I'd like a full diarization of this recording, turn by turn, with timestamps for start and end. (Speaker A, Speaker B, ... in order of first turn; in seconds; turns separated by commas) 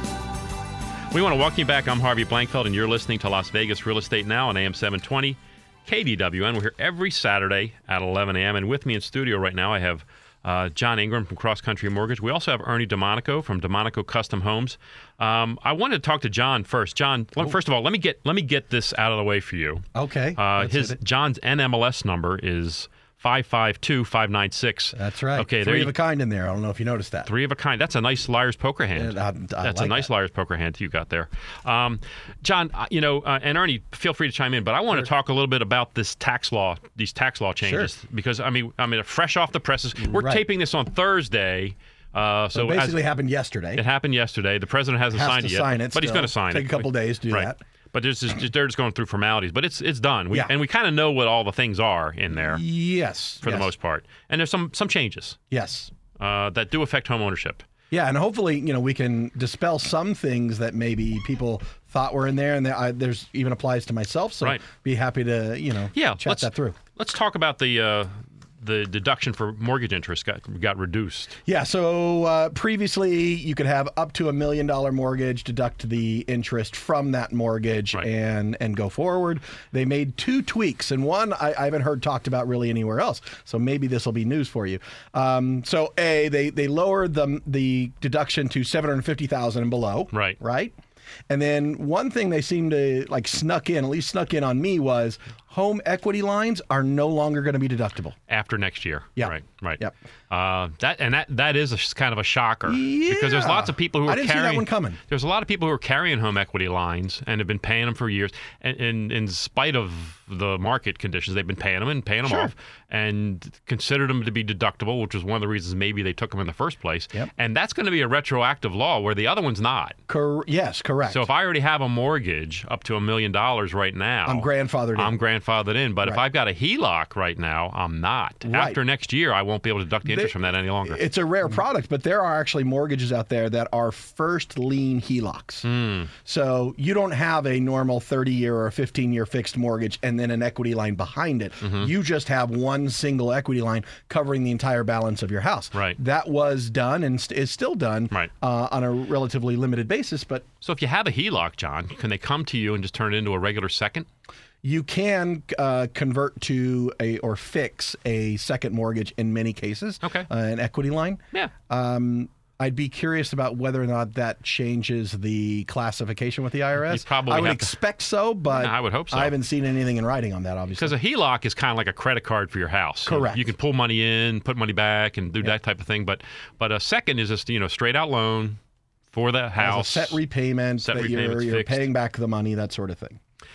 Speaker A: 1.1-19.8, Speaker B: 19.9-21.0, Speaker A: 20.4-25.9, Speaker B: 24.9-27.3, Speaker A: 27.2-43.0, Speaker B: 28.9-30.1, Speaker B: 37.6-37.9, Speaker B: 40.1-40.4, Speaker B: 42.5-43.8, Speaker A: 43.8-52.6, Speaker B: 45.1-47.6, Speaker B: 52.3-53.7, Speaker A: 53.4-55.4, Speaker B: 55.5-55.9, Speaker A: 56.2-57.6, Speaker B: 57.9-66.8, Speaker A: 65.9-71.4, Speaker B: 71.5-90.8, Speaker A: 90.1-90.4, Speaker B: 91.3-98.2, Speaker A: 98.3-120.0, Speaker B: 99.2-99.9, Speaker B: 102.7-105.0, Speaker B: 112.2-112.5, Speaker B: 120.1-121.3, Speaker A: 121.1-131.0, Speaker B: 124.2-125.1, Speaker B: 128.5-128.8, Speaker B: 130.1-130.3, Speaker B: 130.8-135.7, Speaker A: 135.6-136.1, Speaker B: 136.2-150.4, Speaker A: 141.6-141.9, Speaker A: 150.6-154.1, Speaker B: 154.6-170.9, Speaker A: 160.0-160.3, Speaker A: 166.9-167.7, Speaker A: 168.5-169.3, Speaker A: 170.8-178.6, Speaker B: 173.1-173.4, Speaker A: 179.1-180.2, Speaker B: 179.6-183.2, Speaker A: 180.8-181.9